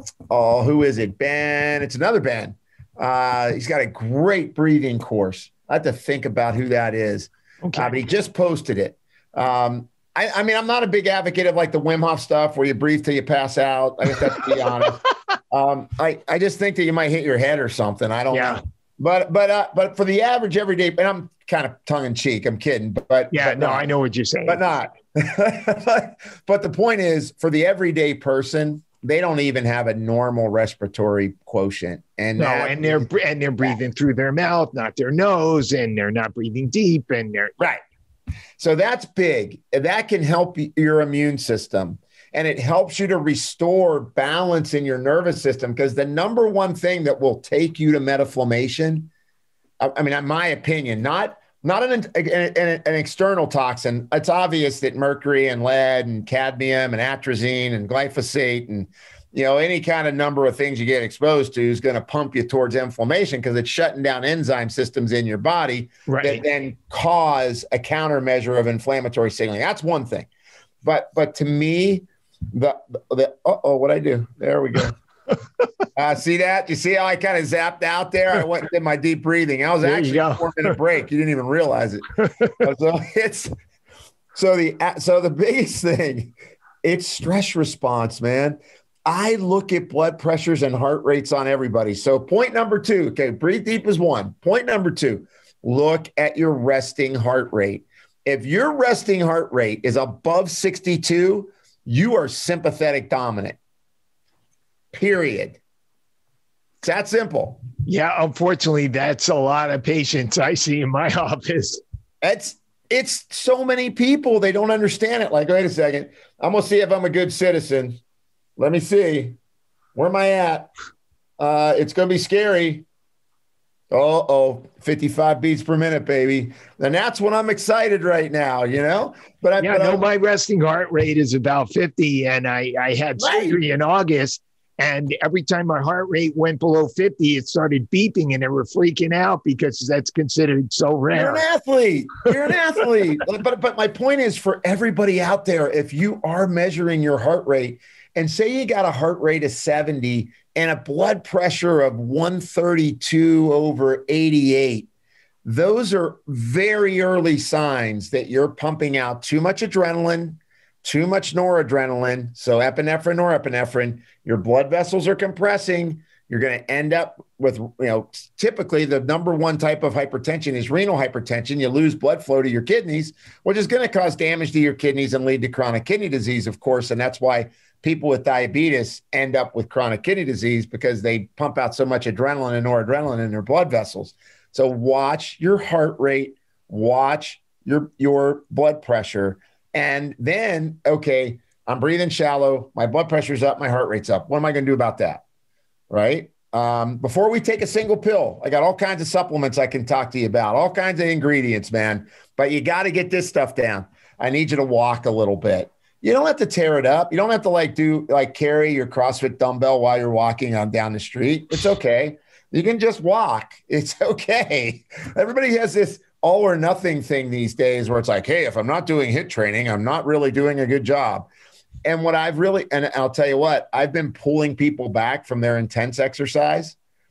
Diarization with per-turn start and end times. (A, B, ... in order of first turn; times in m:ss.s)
0:00.3-0:23.9 A
0:07.6-0:08.0 B
0:14.2-0:14.9 B
0:18.3-0:18.6 B
0:23.3-0:24.6 B
0:24.5-0:33.0 A
0:32.4-0:37.5 B
0:38.6-0:49.1 A
0:49.8-1:10.3 A
1:06.1-1:06.4 B
1:10.8-1:15.0 A
1:16.0-1:23.5 A
1:19.8-1:20.8 B
1:22.2-1:22.6 B
1:24.3-1:43.6 A
1:44.9-1:45.6 A
1:46.8-1:47.6 A
1:47.8-1:51.8 B
1:52.2-1:58.0 A
1:58.6-1:59.4 A
1:59.9-2:00.7 A
2:01.4-2:02.8 A
2:03.9-2:10.1 A
2:09.6-2:21.4 B
2:13.2-2:13.6 A
2:21.1-2:34.9 A
2:35.4-3:15.2 A
3:15.9-3:41.3 A
3:41.8-3:46.8 A